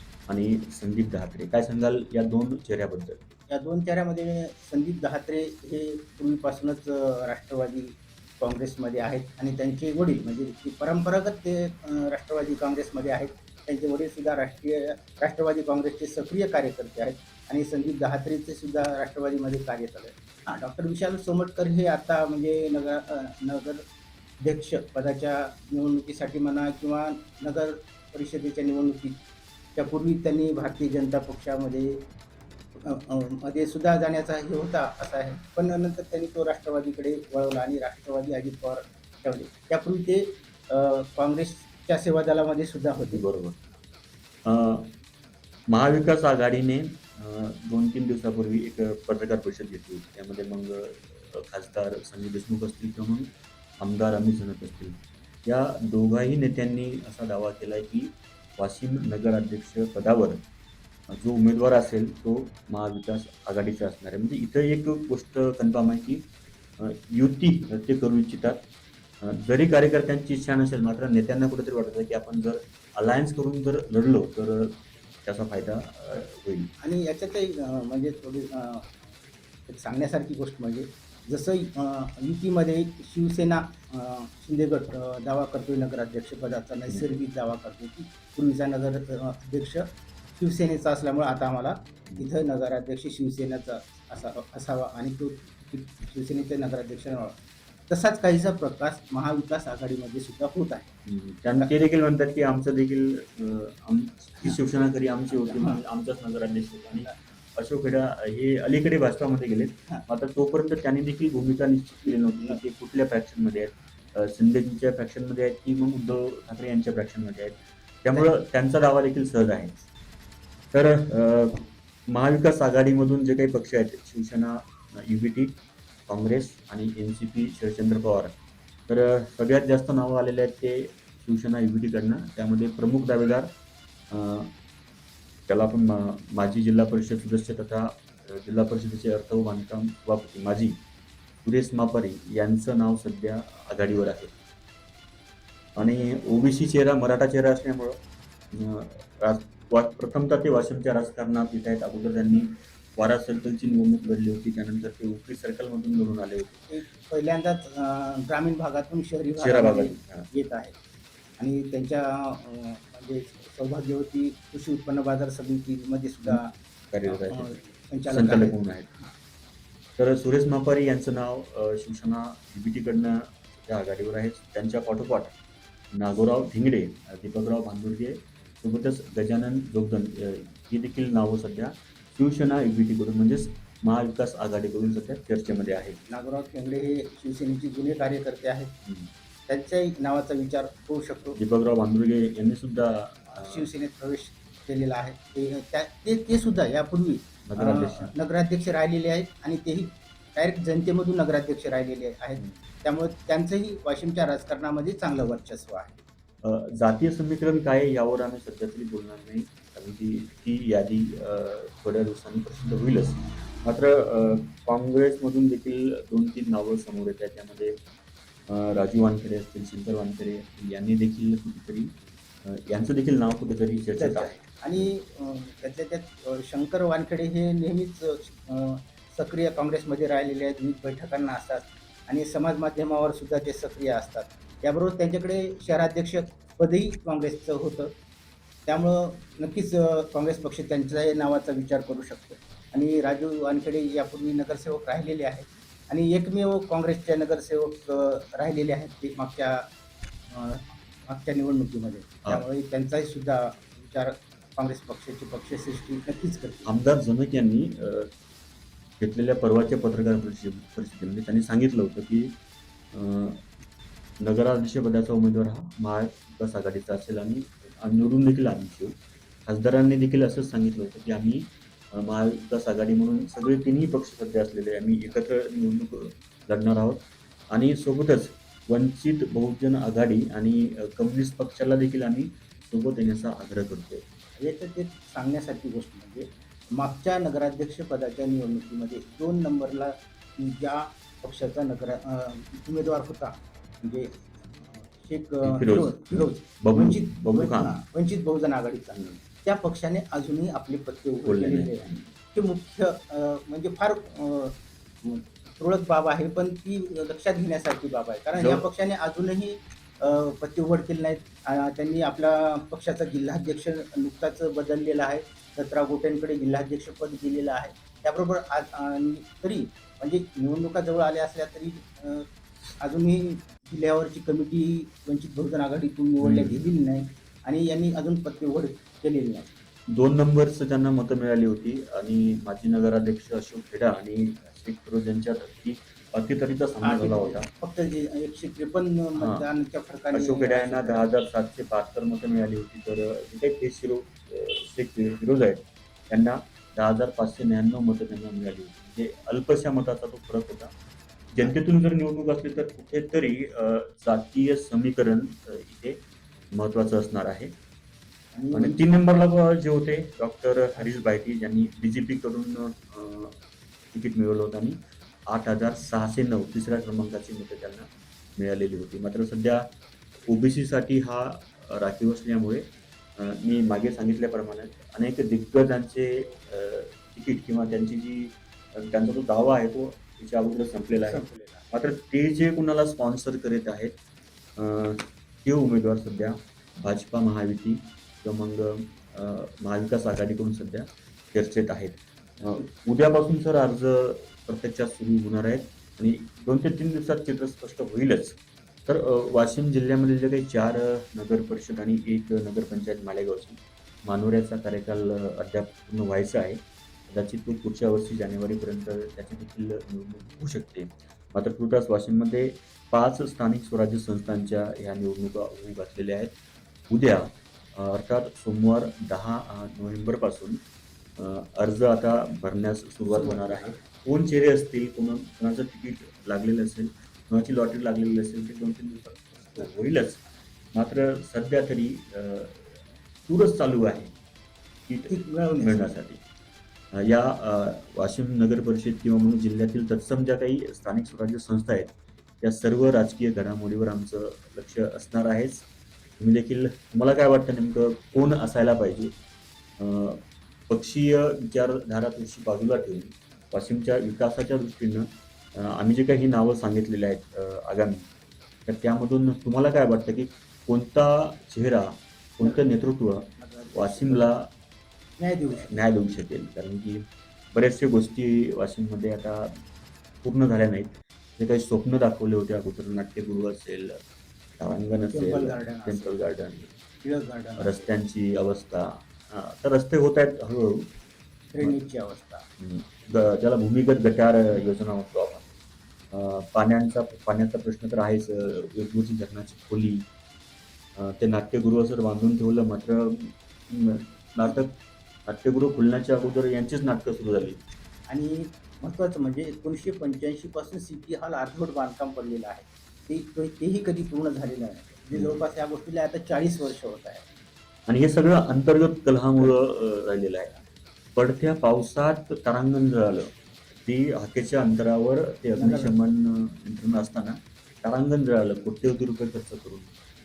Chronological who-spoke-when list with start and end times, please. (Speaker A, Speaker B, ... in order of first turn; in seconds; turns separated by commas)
Speaker A: 0.3-3.2, Speaker B: 3.5-23.9, Speaker B: 24.4-29.2, Speaker B: 29.8-32.1, Speaker B: 32.8-43.2, Speaker A: 43.1-43.6, Speaker A: 44.4-45.0, Speaker A: 45.7-60.4, Speaker A: 61.1-66.2, Speaker A: 66.8-68.6, Speaker A: 69.2-76.7, Speaker B: 76.8-79.1, Speaker B: 79.7-100.9, Speaker A: 101.0-119.8, Speaker B: 105.3-105.8, Speaker A: 120.7-125.5, Speaker A: 126.1-128.3, Speaker A: 128.9-133.5, Speaker A: 134.1-134.5, Speaker A: 135.5-140.8, Speaker A: 141.4-144.3, Speaker A: 145.8-156.7, Speaker B: 156.7-160.7, Speaker A: 159.4-160.3, Speaker B: 161.4-166.5, Speaker A: 166.9-167.6, Speaker B: 167.1-169.2, Speaker A: 168.1-168.9, Speaker A: 170.0-175.3, Speaker A: 175.9-186.0, Speaker B: 186.1-188.8, Speaker A: 188.8-189.1, Speaker B: 189.5-191.4, Speaker A: 191.3-193.7, Speaker B: 193.3-205.9, Speaker A: 197.4-198.1, Speaker A: 206.4-217.8, Speaker A: 218.5-224.9, Speaker B: 223.9-237.9, Speaker B: 238.7-249.7, Speaker B: 250.3-256.7, Speaker A: 256.6-258.1, Speaker A: 259.0-262.3, Speaker A: 262.9-263.4, Speaker A: 264.2-284.0, Speaker B: 284.4-322.3, Speaker A: 295.4-297.8, Speaker A: 301.2-302.1, Speaker A: 308.3-308.6, Speaker B: 322.8-329.5, Speaker A: 326.2-326.7, Speaker A: 329.9-337.5, Speaker B: 336.8-341.0, Speaker A: 339.2-339.4, Speaker A: 340.1-350.7, Speaker A: 351.3-356.0, Speaker A: 356.5-357.5, Speaker B: 358.3-358.8, Speaker A: 358.5-363.4, Speaker A: 363.9-369.7, Speaker A: 370.2-383.9, Speaker B: 381.0-381.8, Speaker A: 384.6-416.3, Speaker A: 416.9-420.6, Speaker A: 421.2-430.2, Speaker B: 423.1-423.8, Speaker A: 430.7-432.8, Speaker A: 433.3-434.1, Speaker A: 434.9-436.2, Speaker B: 435.1-435.9, Speaker A: 436.9-445.6, Speaker A: 446.2-449.1, Speaker A: 449.8-458.1, Speaker A: 458.6-464.5, Speaker B: 462.4-462.8, Speaker B: 463.4-464.3, Speaker B: 465.2-465.7, Speaker A: 465.6-469.6, Speaker A: 470.2-474.0, Speaker A: 474.6-476.7, Speaker B: 475.0-476.2, Speaker B: 477.0-477.9, Speaker A: 477.6-480.9, Speaker B: 481.5-482.4, Speaker A: 482.6-485.5, Speaker A: 486.1-490.1, Speaker A: 490.9-497.6, Speaker B: 498.1-507.2, Speaker A: 505.1-505.4, Speaker A: 507.9-510.6, Speaker A: 511.1-519.9, Speaker B: 515.6-515.9